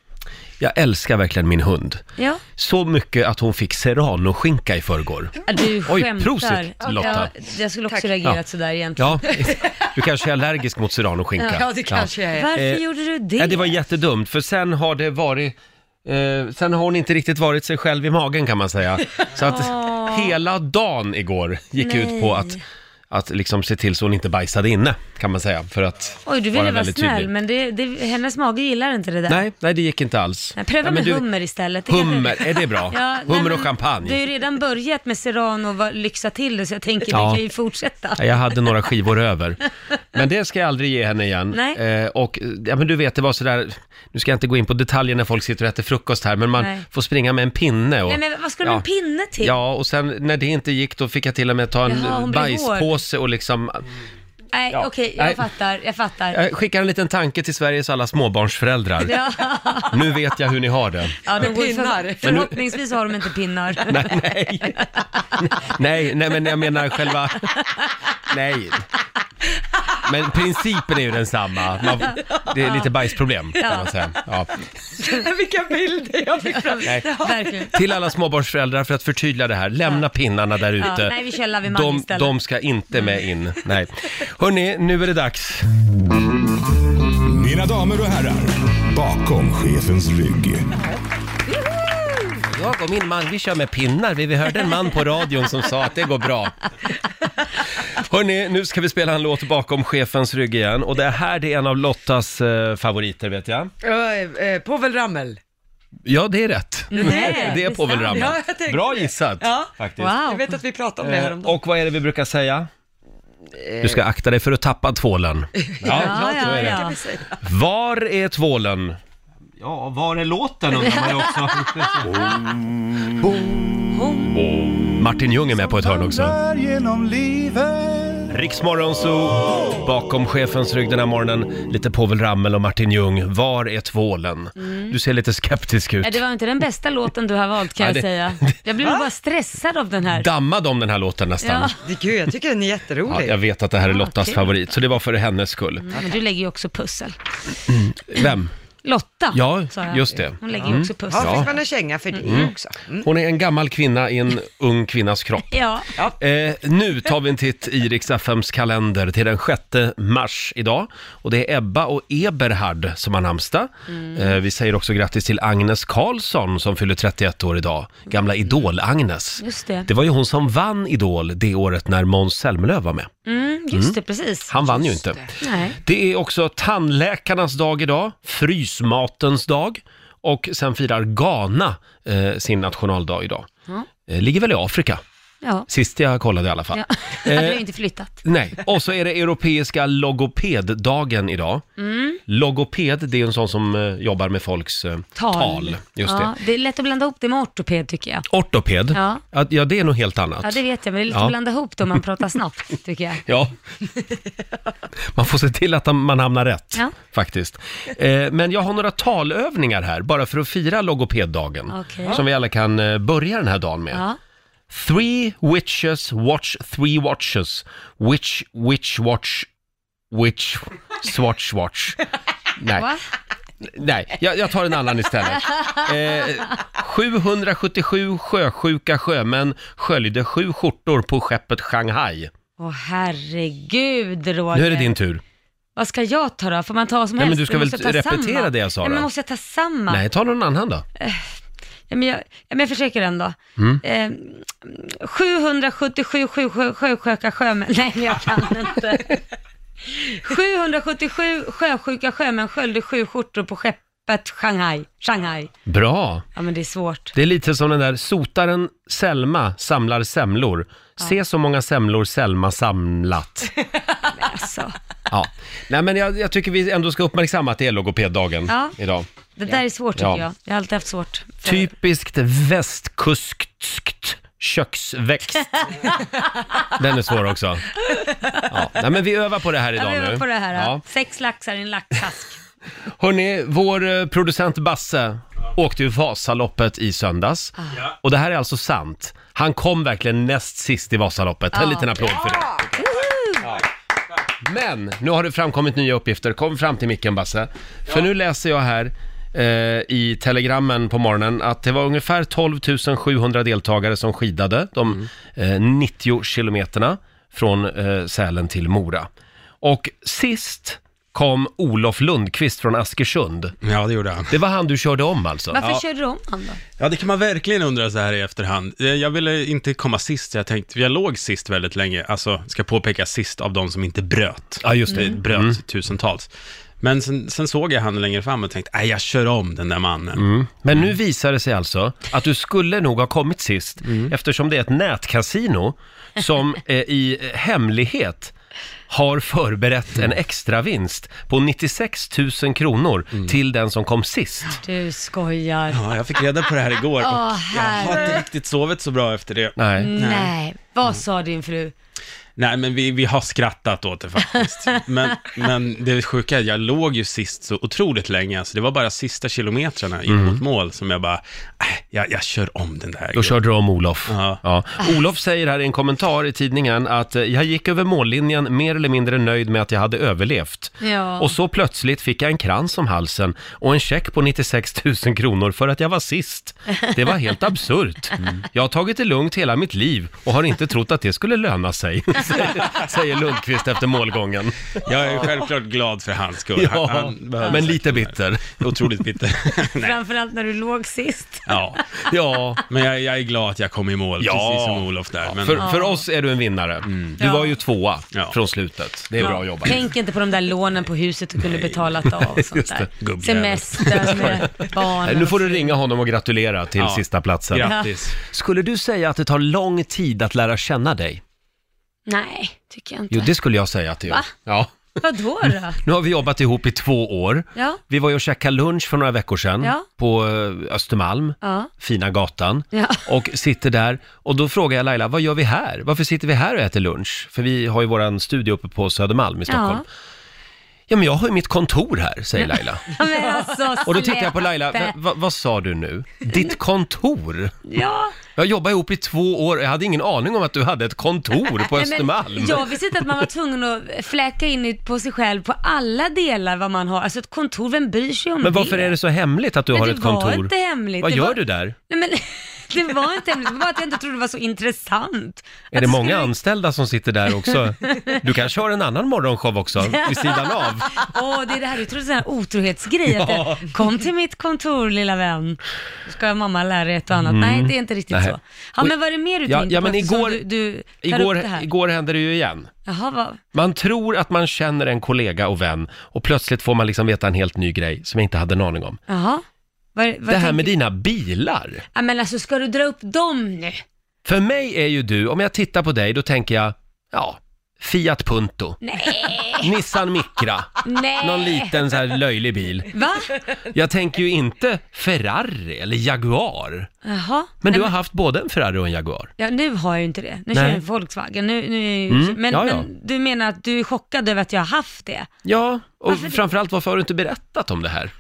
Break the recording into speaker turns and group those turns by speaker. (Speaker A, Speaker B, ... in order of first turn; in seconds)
Speaker A: 0.6-2.0, 2.6-7.3, 9.0-12.8, 13.4-22.6, 23.1-27.3, 29.3-31.3, 31.9-34.2, 37.1-37.4, 38.2-39.6, 40.1-48.9, 49.4-53.8, 54.7-55.4, 56.3-59.2, 59.9-61.4, 62.2-62.5, 63.9-64.9, 65.4-67.5, 68.3-68.9, 70.0-74.7, 77.7-81.2, 81.7-85.7, 92.5-96.5, 97.8-103.7, 106.0-110.1, 111.0-112.7, 113.8-116.8, 117.4-119.0, 119.6-122.3, 124.3-126.4, 128.3-136.2, 137.8-138.6, 140.1-141.7, 143.1-145.9, 147.7-148.5, 149.3-151.5, 152.2-152.5, 153.0-155.5, 156.2-173.1, 174.5-183.5, 184.1-185.0, 185.7-187.6, 188.2-191.7, 192.3-196.3, 198.3-200.6, 201.1-201.3, 203.3-203.5, 205.2-214.0, 214.7-219.5, 220.1-222.0, 222.6-222.9, 223.6-232.3, 234.5-235.2, 237.2-239.1, 239.9-240.8, 243.6-243.8, 255.7-256.2, 257.1-263.5, 265.1-269.1, 270.0-270.2, 271.4-275.4, 276.8-277.7, 278.5-280.8, 283.0-292.7, 294.4-309.1, 309.6-313.6, 314.3-315.8, 324.6-325.6, 330.2-338.3, 338.9-344.6, 349.6-349.9, 360.1-360.4, 363.2-385.3, 386.6-388.8, 392.1-392.6, 394.2-399.9, 402.4-402.9, 404.1-404.5, 405.0-411.2, 413.1-414.9, 415.8-429.8, 430.9-433.0, 433.9-437.6, 438.4-442.6, 448.4-451.8, 455.7-461.1, 463.1-463.7, 467.2-468.9, 469.5-470.4, 471.0-472.7, 473.5-479.0, 480.3-481.8, 484.2-488.8, 489.5-492.9, 493.7-496.9, 497.6-499.3, 500.5-500.8, 502.1-502.9, 505.4-508.1
Speaker B: 5.5-9.4, 12.3-13.8, 19.4-20.3, 21.8-22.6, 26.3-29.4, 30.6-38.3, 41.5-41.8, 46.6-46.8, 48.1-49.6, 51.9-53.0, 54.5-56.4, 59.0-60.0, 61.3-64.1, 73.6-74.1, 76.5-77.7, 80.8-82.3, 106.9-108.3, 110.0-110.5, 115.9-117.0, 123.9-124.4, 134.6-135.0, 136.0-140.3, 141.4-141.8, 143.9-144.5, 145.8-147.2, 148.8-151.6, 155.5-155.9, 163.9-164.3, 169.4-169.9, 173.3-175.8, 186.7-188.2, 191.8-192.2, 195.2-198.2, 198.9-199.2, 200.4-203.2, 211.7-212.2, 213.9-214.2, 222.7-223.0, 232.6-234.9, 235.8-240.0, 241.0-241.2, 241.9-249.2, 249.8-255.5, 256.4-257.1, 264.1-264.8, 268.5-268.8, 269.4-271.7, 277.9-278.5, 279.8-282.4, 291.5-293.4, 315.5-316.6, 324.9-325.2, 344.6-345.8, 347.0-348.2, 349.8-351.7, 370.8-371.3, 389.8-391.6, 395.6-396.1, 397.2-397.5, 399.2-405.8, 407.6-407.9, 412.1-413.3, 415.0-415.8, 421.4-421.7, 422.7-423.0, 429.5-429.8, 432.4-434.9, 437.7-438.1, 441.7-449.0, 449.7-456.3, 457.5-458.2, 459.9-471.7, 472.9-473.4, 479.1-479.4, 479.9-480.7, 481.9-483.8, 488.8-489.7, 490.8-491.7, 492.9-493.3, 497.1-497.9, 499.4-505.3, 506.1-506.4
Speaker C: 6.8-7.3, 9.4-9.9, 11.4-12.5, 61.3-62.5, 75.0-77.7, 103.8-105.4, 107.0-111.6, 113.6-114.0, 115.5-117.4, 141.8-143.4, 150.5-153.1
Speaker D: 87.3-90.7, 126.6-127.6
Speaker E: 313.6-314.3, 316.8-326.3, 326.8-330.2, 345.7-350.3, 352.4-363.4, 364.1-364.4, 384.9-390.0, 391.5-391.8, 392.7-395.6, 401.4-401.8, 403.0-404.7, 407.5-408.2